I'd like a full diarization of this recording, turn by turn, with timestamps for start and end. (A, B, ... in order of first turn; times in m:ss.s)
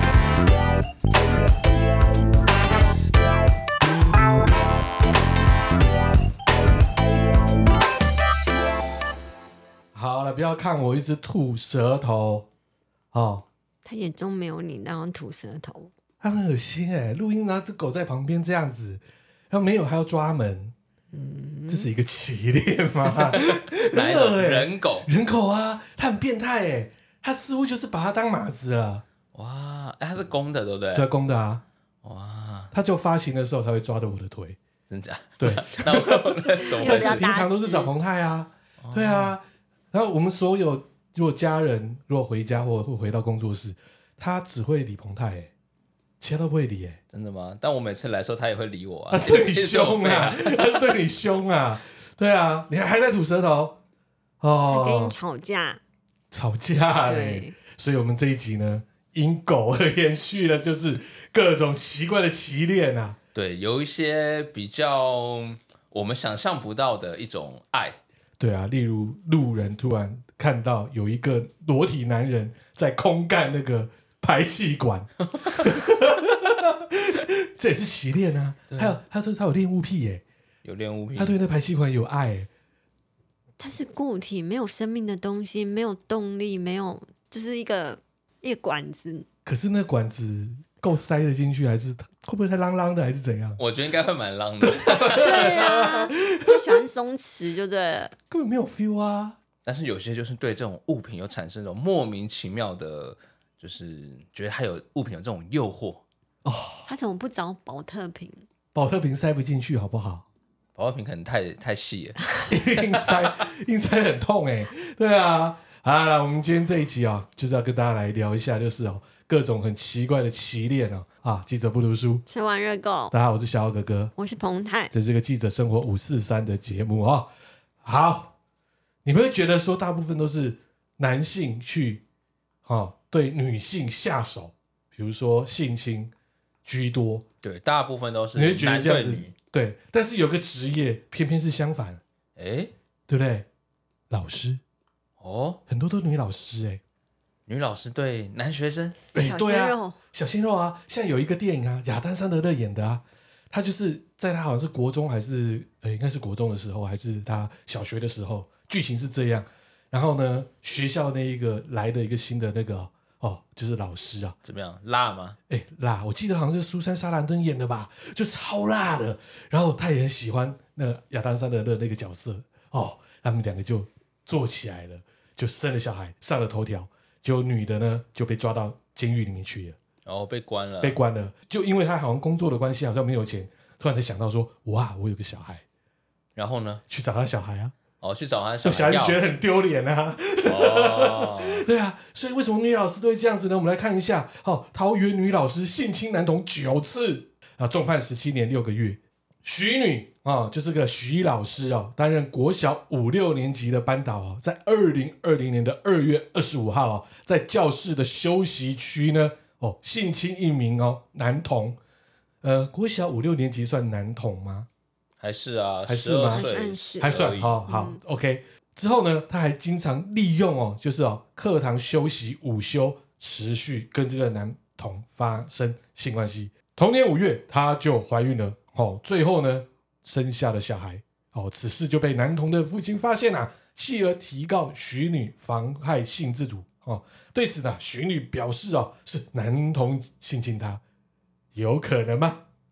0:09.9-0:12.5 A
0:13.1-0:13.4 A
0:13.8-0:15.9 B
0:16.2-0:20.7 A
0:21.1-0:21.9 B
0:21.7-0:29.0 A
0:23.3-0:25.1 C
0:29.3-0:31.1 C
0:30.9-0:31.6 A
0:32.0-0:32.7 C
0:32.7-0:34.6 A
0:34.9-0:37.3 C
0:35.4-0:45.5 A
0:36.6-0:37.9 B
0:38.8-0:39.3 C
0:46.2-0:47.0 A
0:47.1-0:50.9 C
0:49.1-0:53.8 A
0:54.4-0:55.1 A
0:54.7-0:55.8 B
0:56.3-1:03.2 A
0:57.0-0:57.6 B
1:03.3-1:08.0 C
1:08.4-1:20.2 A
1:15.4-1:15.6 C
1:18.7-1:19.0 C
1:20.6-1:21.4 C
1:21.2-1:22.5 A
1:23.6-1:29.3 B
1:29.4-1:33.6 A
1:33.6-1:35.6 C
1:34.6-1:36.6 A
1:35.2-1:38.1 B
1:38.1-1:39.4 A
1:39.6-1:46.0 C
1:46.4-1:46.9 A
1:46.9-1:48.4 B
1:48.7-1:50.2 A
1:50.8-1:53.3 C
1:52.5-2:02.2 A
2:02.3-2:03.1 B
2:03.1-2:04.1 A
2:04.2-2:04.9 B
2:04.9-2:07.3 A
2:07.8-2:08.3 A
2:09.0-2:12.0 A
2:12.6-2:16.1 A
2:16.6-2:17.2 A
2:17.4-2:19.3 C
2:18.3-2:22.0 A
2:22.4-2:22.7 C
2:23.1-2:23.5 A
2:24.1-2:24.6 A
2:25.2-2:25.6 C
2:25.7-2:26.8 A
2:27.5-2:29.0 C
2:29.1-2:30.0 B
2:29.1-2:44.4 A
2:44.4-2:45.4 C
2:45.5-2:59.8 A
3:00.0-3:01.0 C
3:00.8-3:05.6 A
3:06.4-3:06.8 C
3:06.9-3:07.7 A
3:08.0-3:09.2 C
3:08.6-3:31.8 A
3:10.4-3:11.6 C
3:32.4-3:34.7 A
3:35.2-3:37.6 C
3:35.9-3:36.5 A
3:36.3-3:38.0 B
3:37.0-4:00.8 A
4:01.5-4:02.4 A